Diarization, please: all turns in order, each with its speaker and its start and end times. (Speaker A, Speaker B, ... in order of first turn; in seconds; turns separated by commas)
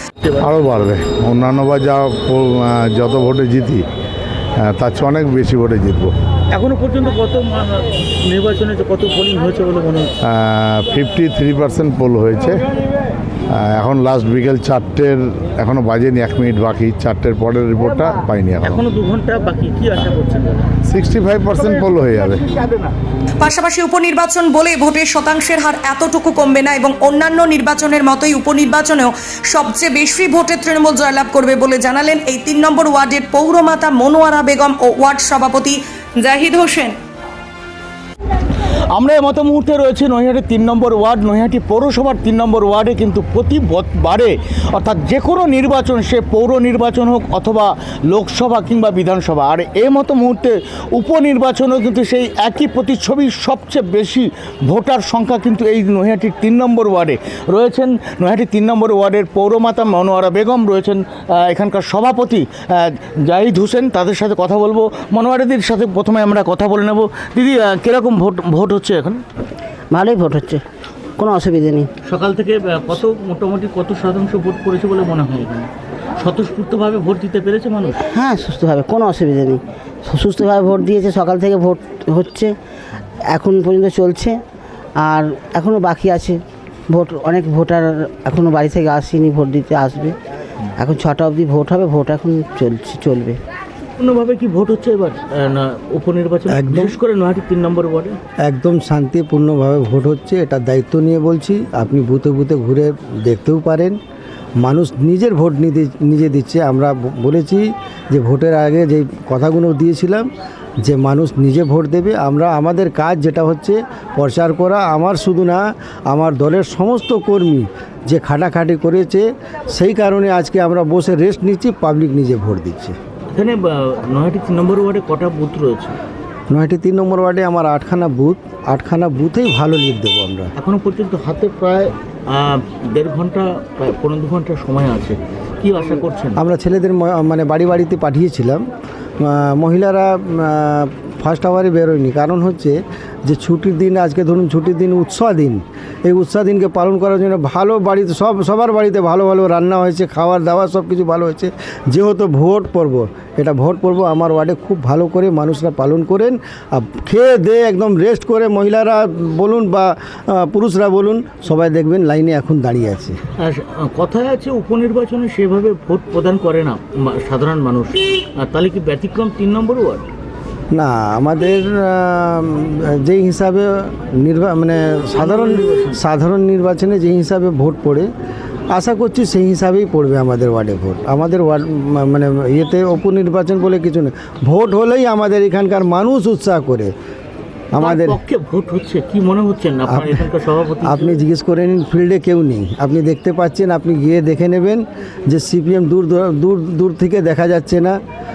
Speaker A: 0.2-0.6, Speaker B: 0.5-3.8, Speaker B: 4.6-6.1, Speaker A: 6.5-10.1, Speaker B: 10.3-12.6, Speaker B: 13.6-18.6, Speaker A: 18.6-20.7, Speaker B: 20.9-21.4, Speaker A: 21.5-22.9, Speaker C: 23.4-37.0, Speaker A: 38.9-69.2, Speaker D: 69.9-70.6, Speaker D: 71.2-71.9, Speaker A: 72.0-78.0, Speaker D: 78.1-82.5, Speaker D: 83.3-84.4, Speaker D: 85.0-90.2, Speaker D: 90.8-93.4, Speaker A: 94.0-98.2, Speaker E: 96.5-97.0, Speaker E: 98.4-104.0, Speaker E: 104.6-110.3, Speaker E: 110.8-122.9, Speaker A: 123.3-126.0, Speaker E: 126.5-130.5, Speaker A: 130.6-136.4, Speaker E: 136.3-138.6, Speaker E: 139.2-163.2, Speaker A: 163.4-170.0, Speaker E: 170.7-178.1, Speaker A: 175.2-176.0, Speaker E: 178.7-186.9, Speaker E: 187.7-188.2, Speaker A: 187.8-191.1, Speaker E: 189.9-190.2, Speaker E: 190.8-198.0